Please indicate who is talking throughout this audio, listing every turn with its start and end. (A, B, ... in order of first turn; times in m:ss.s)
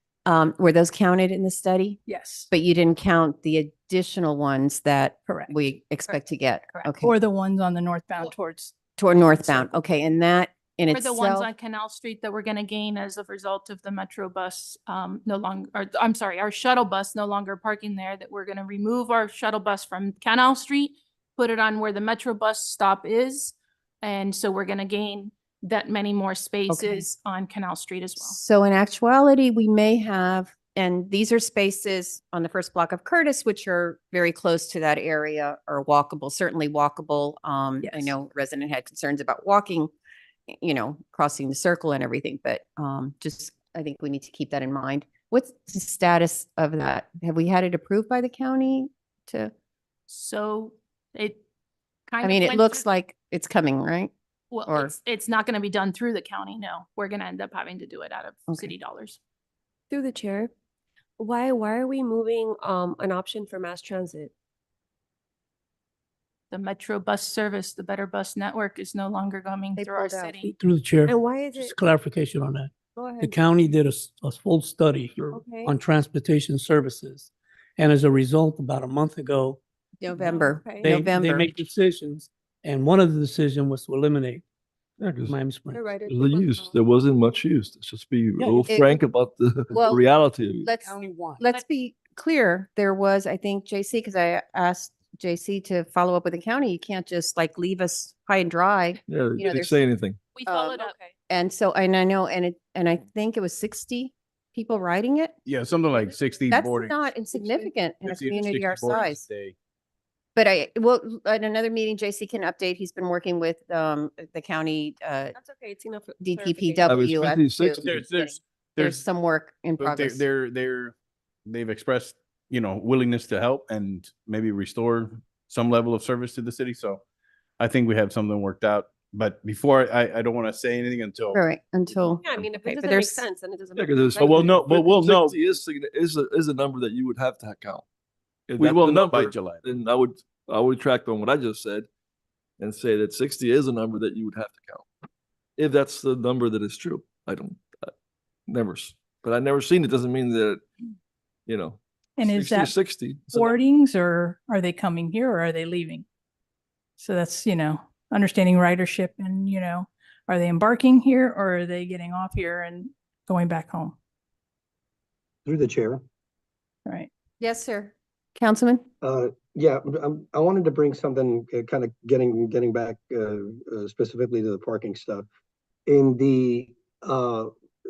0:00.3-0:07.2 A
0:02.1-0:02.5 B
0:06.1-0:07.1 C
0:07.0-0:08.7 B
0:09.0-0:11.5 A
0:10.9-0:28.4 C
0:26.7-0:27.1 A
0:28.2-0:39.9 A
0:37.8-0:38.1 C
0:40.5-0:49.5 A
0:50.1-0:51.4 C
0:52.1-0:52.8 C
0:52.2-0:54.1 A
0:54.5-0:59.2 C
0:54.7-0:54.9 A
0:58.5-0:58.7 A
0:59.9-1:00.5 D
1:01.2-1:04.3 D
1:06.5-1:10.6 C
1:09.8-1:10.4 A
1:10.4-1:19.6 E
1:11.1-1:11.8 D
1:13.0-1:13.4 D
1:15.3-1:15.8 D
1:20.0-1:21.5 A
1:20.2-1:21.0 D
1:20.8-1:24.4 E
1:25.0-1:26.1 E
1:25.7-1:26.7 D
1:26.1-1:30.7 F
1:28.6-1:29.0 A
1:29.7-1:30.0 A
1:30.6-1:39.8 A
1:30.8-1:31.4 E
1:39.1-1:40.2 F
1:40.3-1:41.0 C
1:40.5-1:45.4 A
1:45.5-1:49.6 G
1:46.5-1:49.2 A
1:50.4-1:55.4 A
1:55.4-1:57.0 D
1:56.2-2:00.2 A
1:56.9-1:58.0 F
1:57.8-1:59.0 G
1:59.8-2:07.0 G
2:07.6-2:11.4 G
2:11.3-2:13.2 A
2:12.0-2:14.4 D
2:13.8-2:17.8 F
2:14.3-2:15.4 G
2:18.5-2:21.9 F
2:18.6-2:19.6 G
2:22.6-2:24.9 F
2:25.6-2:27.9 F
2:28.5-2:30.6 F
2:31.5-2:33.6 F
2:32.2-2:32.8 B
2:33.3-2:36.0 B
2:37.0-2:44.0 B
2:45.5-2:46.0 H
2:47.4-2:48.8 A
2:49.0-2:55.3 H
2:55.9-2:57.5 H